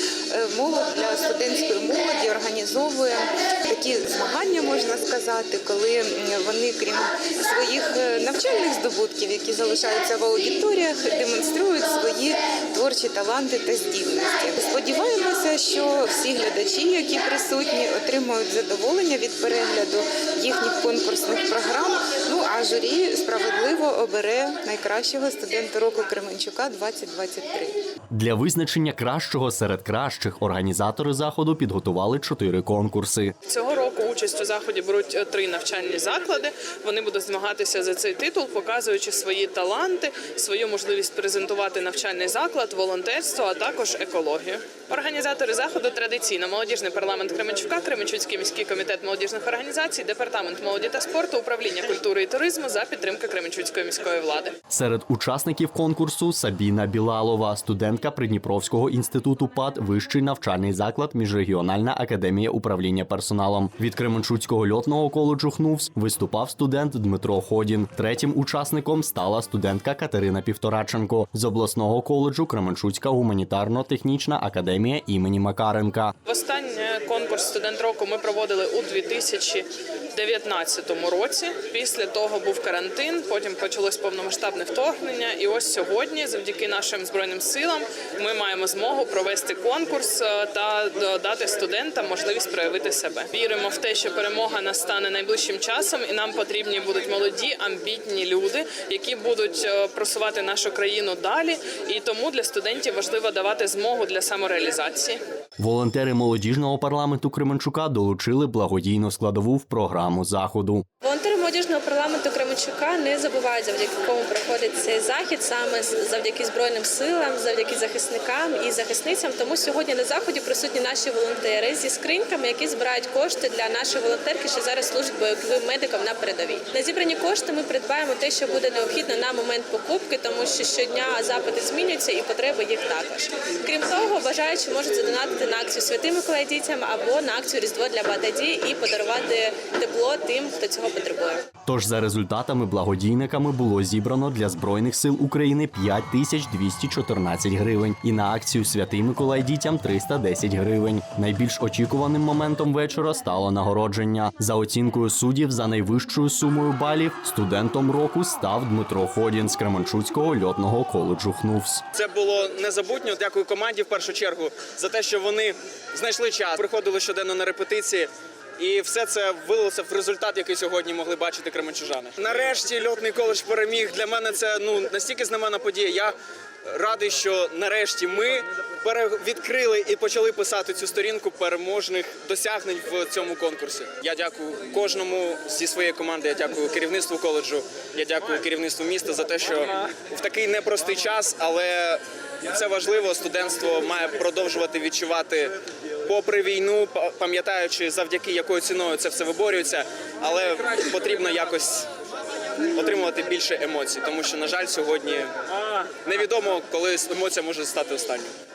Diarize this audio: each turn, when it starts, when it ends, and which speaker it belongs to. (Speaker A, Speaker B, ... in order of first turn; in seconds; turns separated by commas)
Speaker A: 0.3-27.8, Speaker B: 28.1-33.3, Speaker C: 33.5-54.5, Speaker B: 54.7-76.1, Speaker C: 76.2-105.2, Speaker B: 105.6-110.8, Speaker D: 111.0-141.4, Speaker B: 141.7-161.8, Speaker E: 161.9-176.1, Speaker E: 176.7-195.5, Speaker E: 196.1-201.9, Speaker E: 202.7-205.3, Speaker E: 205.9-208.3